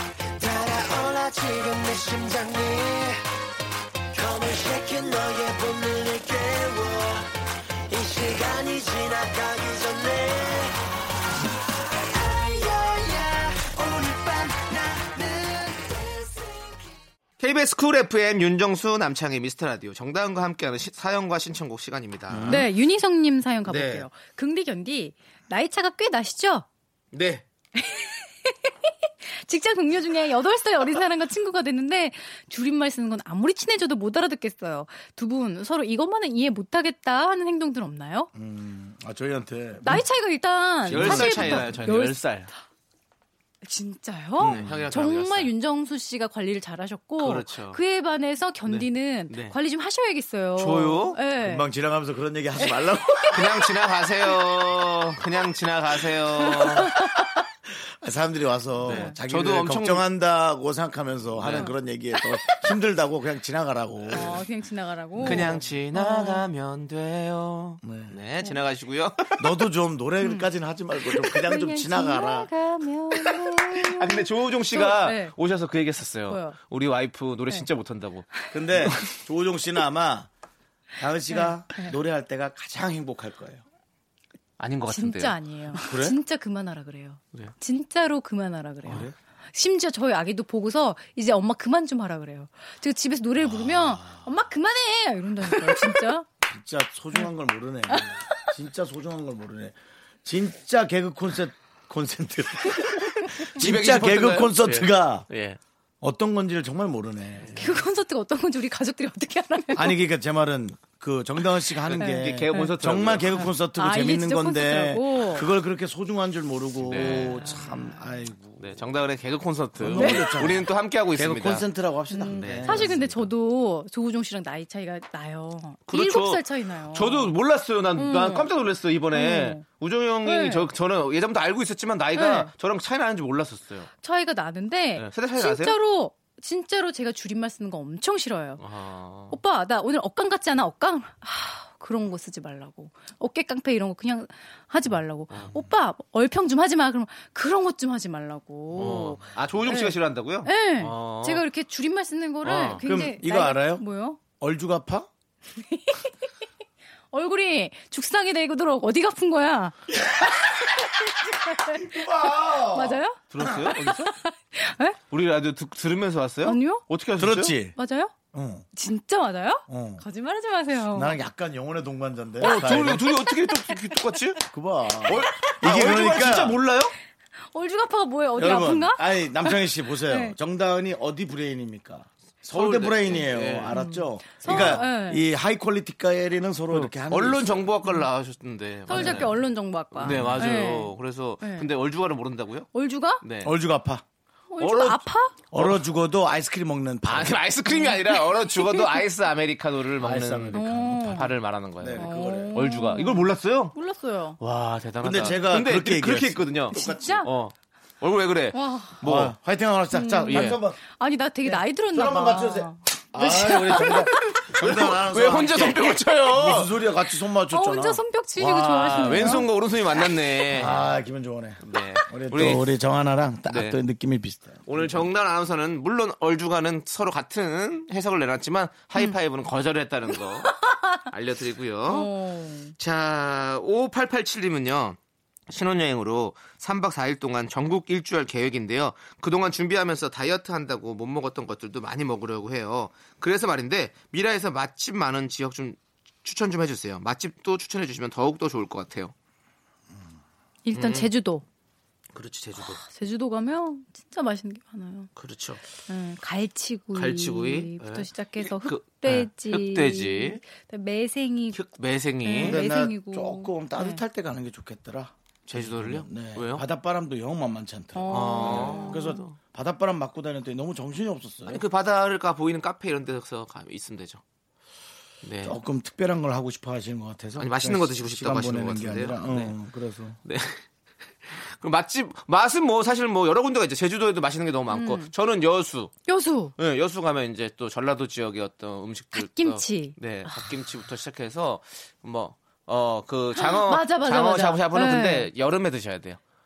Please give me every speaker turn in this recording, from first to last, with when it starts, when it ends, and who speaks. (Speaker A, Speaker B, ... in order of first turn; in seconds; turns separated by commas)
Speaker A: 0.4-3.2, Speaker A: 4.1-7.3, Speaker A: 7.9-10.8, Speaker A: 12.1-16.9, Speaker B: 17.4-22.7, Speaker C: 22.3-22.7, Speaker D: 22.5-26.7, Speaker B: 23.7-24.1, Speaker B: 27.1-27.5, Speaker D: 27.8-38.3, Speaker C: 38.3-40.0, Speaker D: 39.8-42.2, Speaker C: 40.9-41.8, Speaker B: 40.9-42.5, Speaker D: 43.6-51.7, Speaker C: 44.4-44.9, Speaker B: 44.4-45.5, Speaker B: 47.2-47.8, Speaker B: 48.7-49.6, Speaker B: 50.6-51.2, Speaker C: 51.4-53.5, Speaker D: 52.6-53.4, Speaker B: 53.3-56.9, Speaker D: 56.4-57.2, Speaker C: 56.8-57.0, Speaker C: 57.7-64.5, Speaker B: 58.8-60.0, Speaker D: 58.9-59.1, Speaker B: 61.4-61.7, Speaker D: 64.1-66.5, Speaker B: 65.2-69.4, Speaker C: 65.2-65.6, Speaker C: 67.8-68.2, Speaker C: 69.4-72.5, Speaker D: 70.2-70.5, Speaker D: 71.1-75.3, Speaker B: 73.7-78.3, Speaker D: 76.3-76.6, Speaker C: 78.5-80.3, Speaker C: 81.0-83.6, Speaker D: 81.3-82.0, Speaker B: 84.6-85.4, Speaker D: 84.9-96.3, Speaker C: 85.8-86.2, Speaker C: 88.8-89.2, Speaker C: 93.4-94.3, Speaker C: 96.4-105.3, Speaker D: 97.9-98.5, Speaker B: 103.5-105.6, Speaker C: 106.0-107.8, Speaker D: 107.6-110.0, Speaker C: 109.7-118.9, Speaker B: 111.9-113.5, Speaker D: 112.0-112.7, Speaker D: 113.3-115.5, Speaker B: 116.8-117.6, Speaker D: 117.0-117.9, Speaker B: 118.6-121.7, Speaker C: 119.8-123.3, Speaker D: 120.0-120.5, Speaker D: 122.1-127.4, Speaker B: 122.3-123.1, Speaker B: 125.9-133.9, Speaker D: 128.0-128.5, Speaker D: 129.1-129.6, Speaker D: 130.2-130.7, Speaker D: 132.2-132.5, Speaker D: 134.0-138.6, Speaker B: 135.0-135.8, Speaker B: 138.6-139.4, Speaker D: 139.3-154.2, Speaker B: 145.3-145.6, Speaker B: 148.7-151.4, Speaker B: 152.4-152.8, Speaker C: 152.8-153.8, Speaker C: 154.4-155.1, Speaker D: 155.6-156.2, Speaker D: 157.1-159.8, Speaker D: 160.8-161.9, Speaker C: 161.7-163.7, Speaker D: 162.5-165.0, Speaker B: 163.3-164.1, Speaker B: 165.1-167.6, Speaker D: 166.4-166.8, Speaker C: 167.2-167.8, Speaker D: 167.8-168.2, Speaker C: 168.3-168.7, Speaker D: 168.7-171.2, Speaker C: 169.7-170.1, Speaker C: 170.9-173.1, Speaker B: 172.4-174.4, Speaker C: 174.5-176.6, Speaker B: 175.1-176.9, Speaker D: 177.5-180.4, Speaker C: 178.4-187.7, Speaker B: 182.5-183.8, Speaker D: 183.7-185.2, Speaker B: 184.4-184.8, Speaker B: 186.7-189.4, Speaker D: 188.9-191.7, Speaker C: 188.9-189.3, Speaker B: 189.9-192.7, Speaker C: 190.0-190.4, Speaker D: 192.7-193.2, Speaker B: 193.2-193.5, Speaker C: 193.4-194.0, Speaker D: 194.5-195.4, Speaker B: 194.6-195.1, Speaker C: 195.5-197.4, Speaker B: 197.0-203.8, Speaker D: 197.7-199.0, Speaker C: 200.0-201.2, Speaker D: 200.5-201.3, Speaker C: 201.8-202.6, Speaker D: 202.0-204.4, Speaker B: 204.4-209.3, Speaker C: 205.0-207.3, Speaker D: 206.7-207.3, Speaker D: 208.5-209.0, Speaker C: 209.0-210.8, Speaker D: 209.9-214.4, Speaker B: 210.3-210.6, Speaker C: 211.4-219.4, Speaker B: 213.9-216.8, Speaker D: 217.5-219.5, Speaker B: 218.4-220.8, Speaker C: 220.5-225.1, Speaker B: 221.6-222.7, Speaker B: 223.5-223.8, Speaker B: 224.7-230.6, Speaker D: 230.4-231.0, Speaker B: 231.1-232.2, Speaker D: 231.9-232.8, Speaker B: 232.8-235.0, Speaker B: 235.5-249.1, Speaker D: 250.7-251.4, Speaker B: 250.7-251.1, Speaker B: 252.1-252.8, Speaker D: 252.6-255.1, Speaker B: 255.2-255.6, Speaker D: 255.9-261.6, Speaker B: 256.9-260.4, Speaker B: 261.5-262.6, Speaker D: 262.2-264.0, Speaker C: 262.4-271.6, Speaker B: 265.5-266.6, Speaker D: 267.9-269.2, Speaker B: 268.1-269.4, Speaker B: 271.5-274.2, Speaker B: 275.2-275.6, Speaker C: 275.4-280.2, Speaker B: 277.4-279.6, Speaker B: 280.2-280.6, Speaker B: 281.2-285.9, Speaker D: 284.7-285.1, Speaker D: 286.1-286.5, Speaker B: 286.6-296.2, Speaker D: 289.1-290.5, Speaker D: 293.4-295.3